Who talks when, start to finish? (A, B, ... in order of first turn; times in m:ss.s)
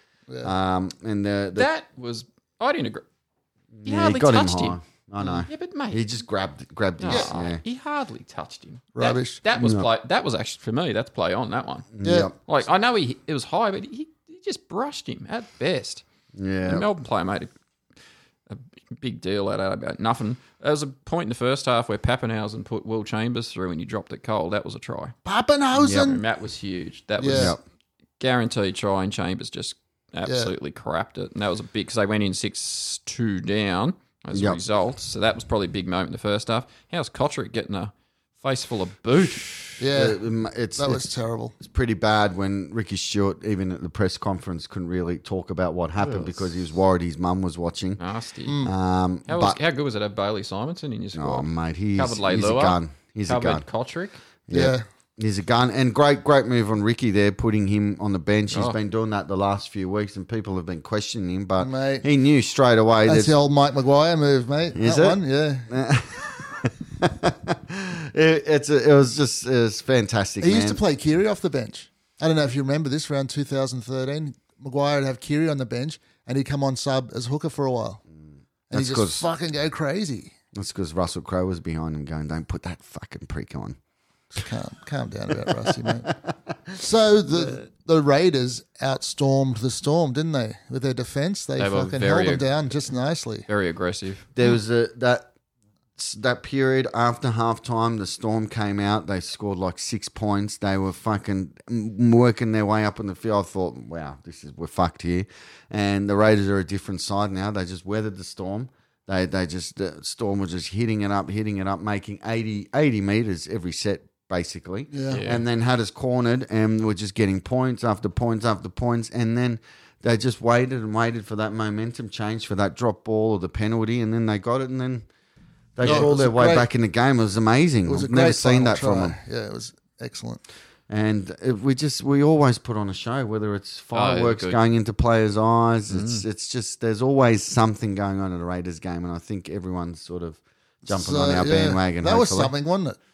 0:00.4-0:01.7 A
0:01.6-0:03.0 B
0:03.8-0:07.6 A
0:03.8-0:06.1 B
0:07.0-0:16.0 B
0:09.0-0:09.4 C
0:09.6-0:09.9 A
0:12.0-0:12.3 A
0:12.0-0:12.3 C
0:16.4-0:16.8 A
0:16.7-0:17.5 B
0:18.5-0:25.1 B
0:25.2-0:26.2 C
0:25.8-0:26.1 A
0:25.8-0:27.6 B
0:27.2-0:27.6 C
0:27.3-0:27.6 A
0:28.2-0:39.8 B
0:30.3-0:30.5 C
0:34.3-0:34.6 A
0:39.8-0:40.2 C
0:39.9-0:41.0 A
0:40.8-0:41.6 C
0:41.6-0:48.0 A
0:48.0-0:48.6 B
0:48.4-0:48.7 C
0:48.6-0:49.6 A
0:49.3-0:54.2 B
0:51.2-0:53.6 A
0:54.5-1:03.3 A
0:54.5-0:54.8 C
0:58.5-0:58.8 B
1:01.6-1:02.1 C
1:03.1-1:05.7 C
1:04.8-1:10.8 A
1:10.4-1:18.0 C
1:18.7-1:20.4 C
1:18.7-1:19.2 A
1:20.5-1:23.8 A
1:24.3-1:26.1 C
1:26.7-1:33.5 C
1:31.6-1:32.4 B
1:33.5-1:34.3 B
1:34.4-1:35.3 A
1:36.0-2:05.1 A
1:54.9-1:55.2 C
1:55.1-1:55.4 B
2:05.8-2:09.2 A
2:05.8-2:06.7 C
2:05.8-2:06.1 B
2:07.9-2:10.4 C
2:10.9-2:22.5 A
2:13.9-2:14.6 B
2:15.9-2:16.2 B
2:20.9-2:23.0 C